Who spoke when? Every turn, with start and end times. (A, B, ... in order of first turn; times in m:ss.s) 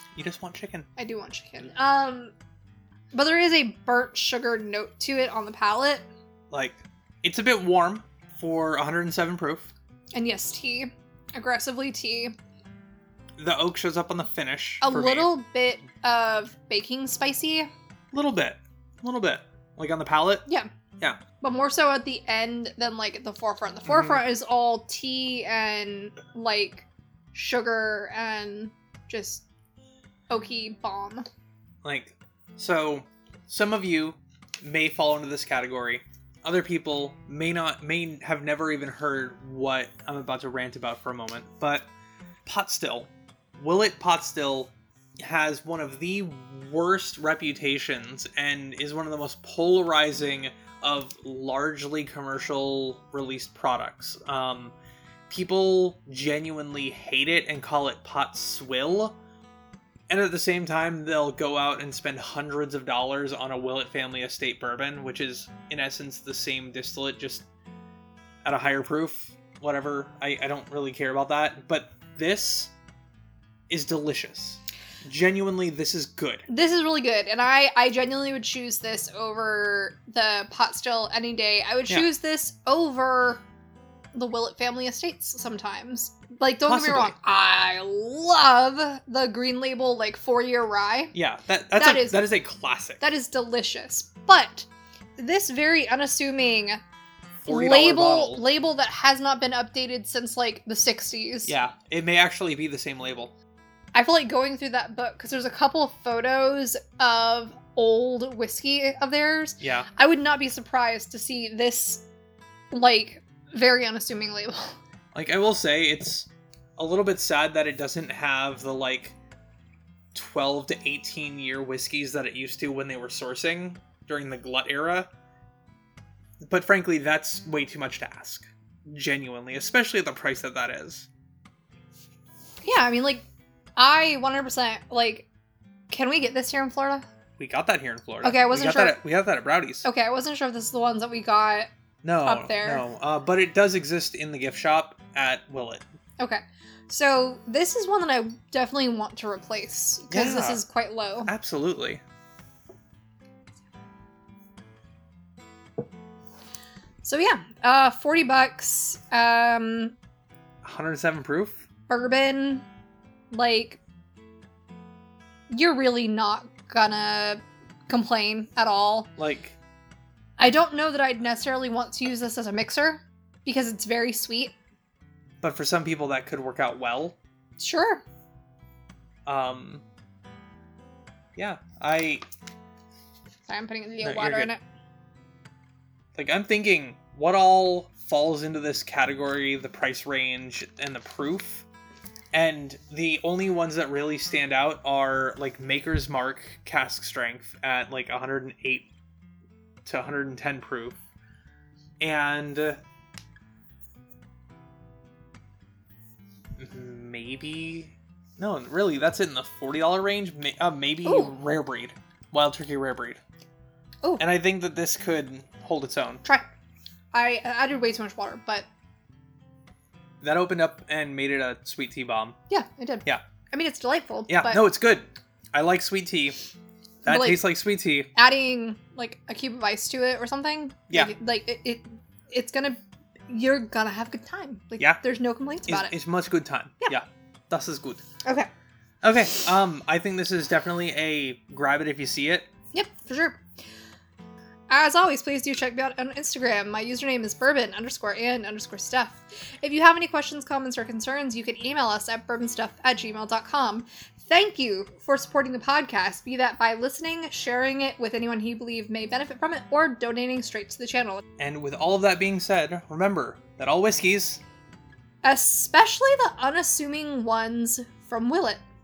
0:00.1-0:00.9 A
0:01.0-0:02.3 B
0:03.1-0:06.1 B
0:06.5-0:09.7 A
0:10.1-0:12.3 B
0:13.4-0:15.3 A
0:14.8-0:17.7 B
0:18.1-0:20.5 A
0:21.4-0:29.4 B
0:23.8-0:24.2 A
0:30.3-0:31.2 B
0:31.8-0:41.9 A
0:42.4-0:54.7 A
0:55.3-0:59.2 A
1:00.1-1:07.4 A
1:08.4-1:12.7 A
1:13.7-1:16.4 A
1:16.5-1:23.4 B
1:24.1-1:31.1 B
1:26.6-1:27.1 A
1:31.1-1:33.0 A
1:31.8-1:32.3 B
1:33.0-1:36.8 B
1:37.4-1:38.4 A
1:37.5-1:41.5 B
1:41.4-1:43.3 A
1:43.9-1:52.0 B
1:49.6-1:49.9 A
1:52.7-1:54.8 B
1:55.1-1:59.2 A
2:00.1-2:05.1 A
2:06.4-2:11.1 A
2:12.6-2:15.3 B
2:15.9-2:17.0 B
2:17.4-2:19.8 A
2:18.2-2:19.0 B
2:19.8-2:21.7 B
2:22.0-2:25.8 A
2:22.2-2:22.8 B
2:26.2-2:31.3 B
2:30.1-2:30.6 A
2:31.2-2:32.0 A
2:37.0-2:40.0 B
2:40.6-2:41.6 A
2:41.9-2:42.6 B
2:43.3-2:43.8 B
2:45.5-2:49.1 B
2:49.2-2:49.6 A
2:50.4-2:54.5 B
2:55.4-2:57.2 A
2:57.6-2:58.0 B
2:59.2-2:59.8 A
3:01.4-3:02.2 A
3:03.5-3:04.6 B
3:04.0-3:04.5 A
3:06.1-3:11.6 A
3:12.3-3:18.9 A
3:19.8-3:21.0 A
3:22.0-3:22.8 A
3:26.6-3:33.2 A
3:31.0-3:31.3 B
3:34.2-3:36.2 A
3:37.1-3:38.6 B
3:40.2-3:42.4 A
3:42.5-3:44.6 B
3:44.3-3:46.4 A
3:47.0-3:48.1 A
3:47.0-3:47.5 B
3:48.1-3:56.0 B
3:55.6-3:58.0 A
3:58.2-3:58.5 B
3:59.0-4:02.5 A
4:02.7-4:03.4 B
4:04.7-4:21.2 B
4:21.4-4:24.4 A
4:25.2-4:28.6 B